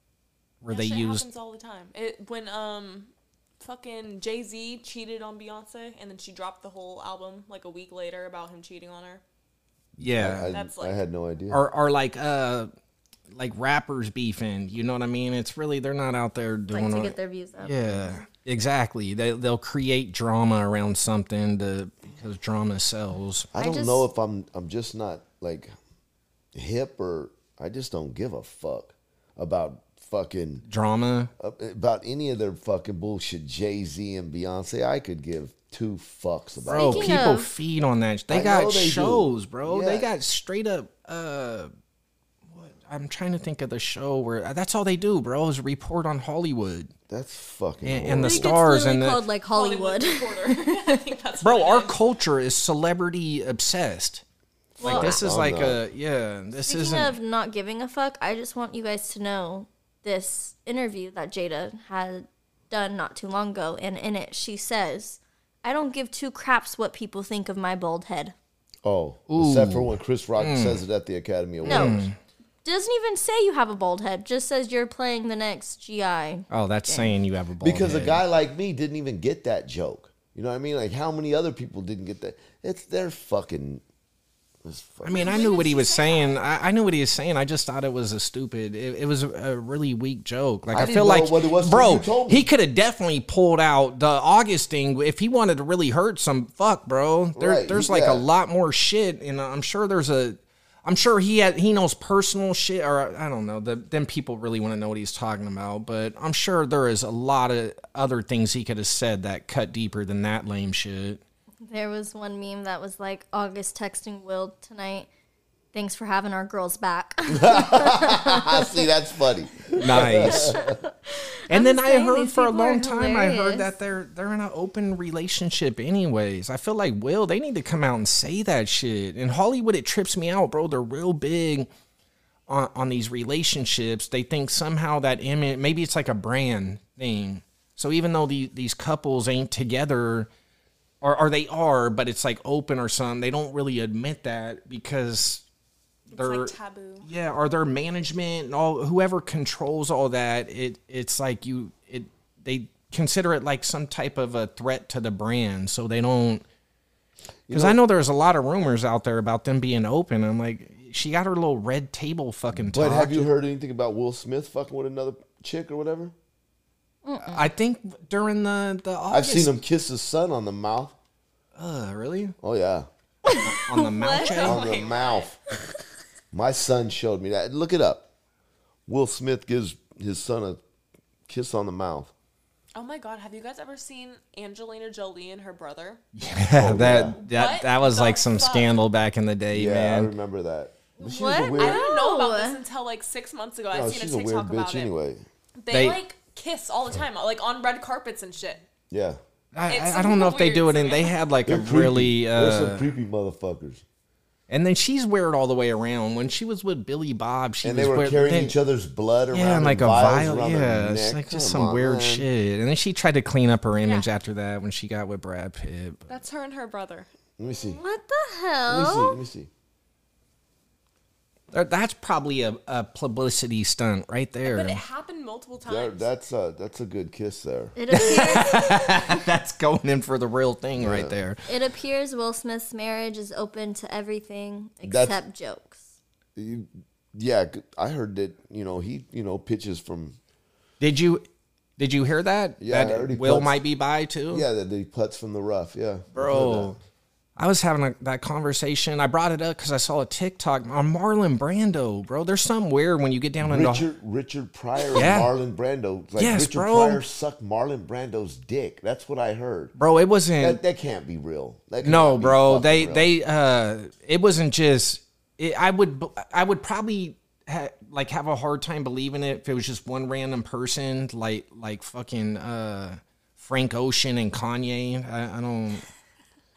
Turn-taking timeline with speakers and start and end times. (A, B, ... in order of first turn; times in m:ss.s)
0:00.6-0:01.2 A
0:00.7-0:09.2 B
0:10.0-0:11.6 C
0:10.0-0:10.5 A
0:10.5-0:11.0 B
0:11.5-0:12.7 A
0:13.3-0:23.5 A
0:16.7-0:18.2 D
0:23.5-0:25.7 C
0:23.6-0:24.0 D
0:26.5-0:30.6 C
0:30.7-0:31.3 A
0:31.4-0:37.2 C
0:36.6-0:37.5 D
0:36.7-0:41.7 A
0:38.3-0:40.1 C
0:42.5-0:46.9 A
0:47.1-0:48.5 C
0:47.8-0:49.2 A
0:48.2-0:51.0 D
0:49.5-0:52.0 B
0:51.4-0:54.2 A
0:54.8-0:55.2 D
0:54.8-0:57.2 A
0:54.8-0:55.8 C
0:56.6-1:08.3 D
1:08.8-1:12.1 C
1:09.3-1:10.8 A
1:11.6-1:12.2 A
1:11.6-1:12.0 D
1:12.6-1:17.2 D
1:16.5-1:18.2 A
1:17.6-1:23.8 C
1:24.6-1:25.3 C
1:25.0-1:51.2 A
1:25.1-1:26.4 B
1:30.7-1:32.5 C
1:37.4-1:38.2 C
1:51.6-1:55.1 D
1:55.7-1:58.9 D
1:57.3-2:00.8 C
1:59.7-2:03.7 D
1:59.8-2:00.6 A
2:01.5-2:11.7 A
2:12.5-2:20.3 A
2:21.0-2:25.4 A
2:26.1-2:27.1 B
2:26.1-2:36.4 A
2:37.5-2:37.8 C
2:37.5-2:43.3 A
2:42.6-2:46.1 C
2:47.0-2:47.5 D
2:47.3-2:49.6 A
2:49.1-2:50.9 C
2:51.6-2:52.3 A
2:52.4-2:52.9 C
2:53.3-2:54.4 D
2:53.4-2:54.6 A
2:54.0-2:55.3 B
2:54.4-2:55.4 C
2:56.3-2:58.1 C
2:58.9-3:00.6 C
3:01.3-3:02.1 C
3:02.7-3:06.0 B
3:06.2-3:10.1 A
3:06.5-3:07.2 C
3:07.1-3:08.8 B
3:09.5-3:11.8 C
3:11.0-3:12.6 D
3:11.6-3:14.9 B
3:13.7-3:15.2 C
3:15.6-3:18.6 B
3:15.7-3:16.0 A
3:18.9-3:19.2 C
3:19.5-3:22.9 A
3:19.7-3:21.1 B
3:21.4-3:23.8 C
3:24.5-3:28.6 A
3:27.6-3:32.3 C
3:29.3-3:36.1 A
3:33.8-3:34.1 B
3:36.1-3:37.1 B
3:37.4-3:37.8 C
3:37.6-3:39.2 D
3:38.7-3:39.5 C
3:41.5-3:44.8 A
3:44.4-3:46.1 B
3:45.6-3:48.1 C
3:47.8-3:49.2 D
3:47.9-3:51.5 A
3:50.8-3:51.1 C
3:51.5-3:55.8 D
3:54.8-3:55.2 C
3:56.4-4:00.2 C
4:00.8-4:01.2 A
4:01.8-4:04.4 A
4:02.6-4:03.6 C
4:04.3-4:06.8 C
4:06.1-4:06.8 A
4:07.4-4:13.9 A
4:13.4-4:19.7 C
4:14.9-4:15.3 A
4:16.2-4:17.0 A
4:19.8-4:20.6 A
4:20.4-4:23.1 C
4:21.8-4:35.8 A